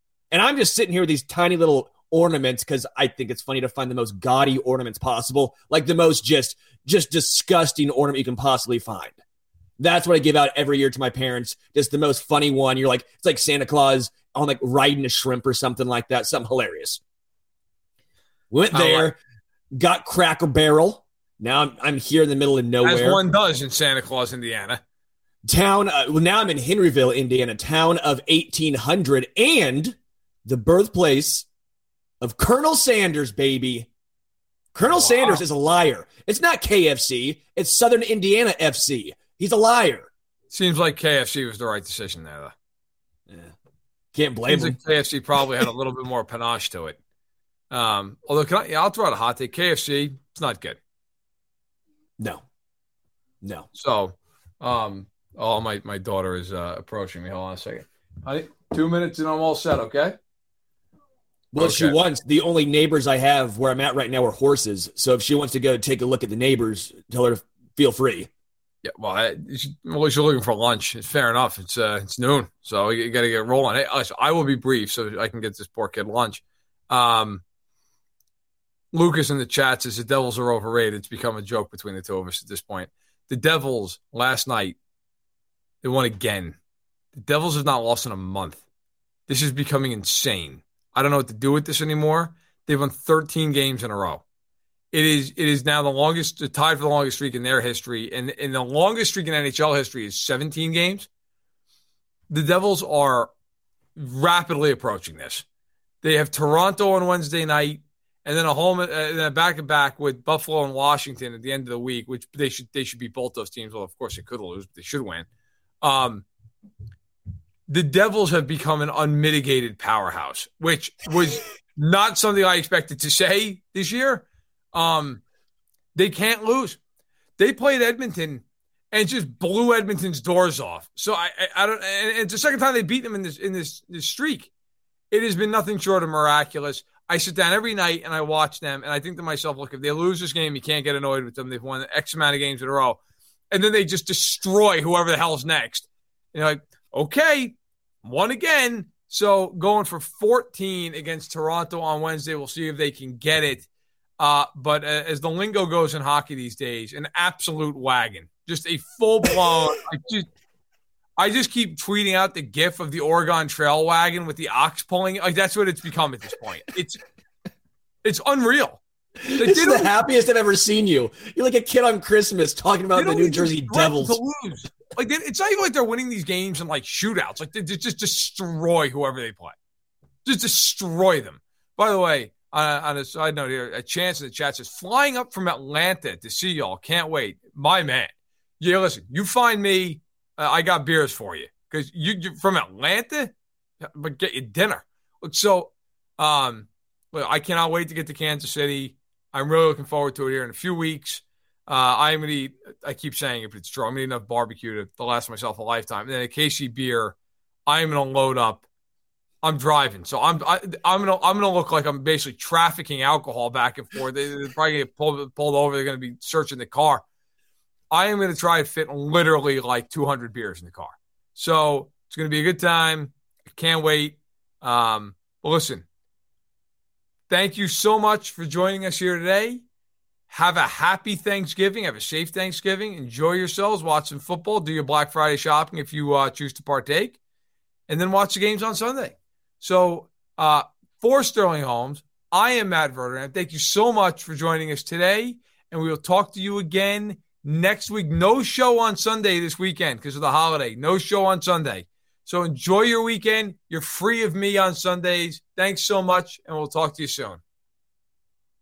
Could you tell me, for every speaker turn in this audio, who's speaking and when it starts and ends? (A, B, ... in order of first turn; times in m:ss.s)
0:00.3-0:09.2 A
0:09.8-0:17.0 A
0:18.5-0:19.2 A
0:18.7-0:19.1 B
0:19.7-0:23.2 A
0:22.8-0:24.8 B
0:25.4-0:31.4 A
0:32.2-0:33.9 A
0:34.7-0:40.1 A
0:34.9-0:35.4 B
0:40.5-0:42.5 B
0:44.1-0:44.8 A
0:44.5-0:47.0 B
0:47.7-0:50.8 B
0:53.4-0:53.7 A
0:53.8-1:00.2 B
1:01.5-1:08.3 A
1:01.6-1:02.0 B
1:08.8-1:17.4 B
1:18.9-1:24.8 B
1:25.8-1:26.6 B
1:27.1-1:28.6 B
1:29.3-1:34.2 B
1:34.9-1:41.1 B
1:42.3-1:43.3 B
1:44.0-1:45.4 B
1:46.0-1:55.3 B
1:55.8-1:56.2 B
1:57.7-2:05.2 B
2:05.9-2:06.8 B
2:07.4-2:14.5 B
2:15.1-2:23.0 B
2:23.5-2:33.7 B
2:34.2-2:40.3 B
2:41.2-2:47.0 B
2:48.0-2:48.8 B
2:49.2-2:54.2 A
2:49.3-2:49.9 B
2:53.0-2:59.5 B
3:00.2-3:27.2 B
3:27.7-3:28.6 B
3:29.4-3:37.0 B
3:37.9-3:45.8 B
3:47.3-3:49.6 B
3:50.3-3:57.2 B
3:57.9-4:17.4 B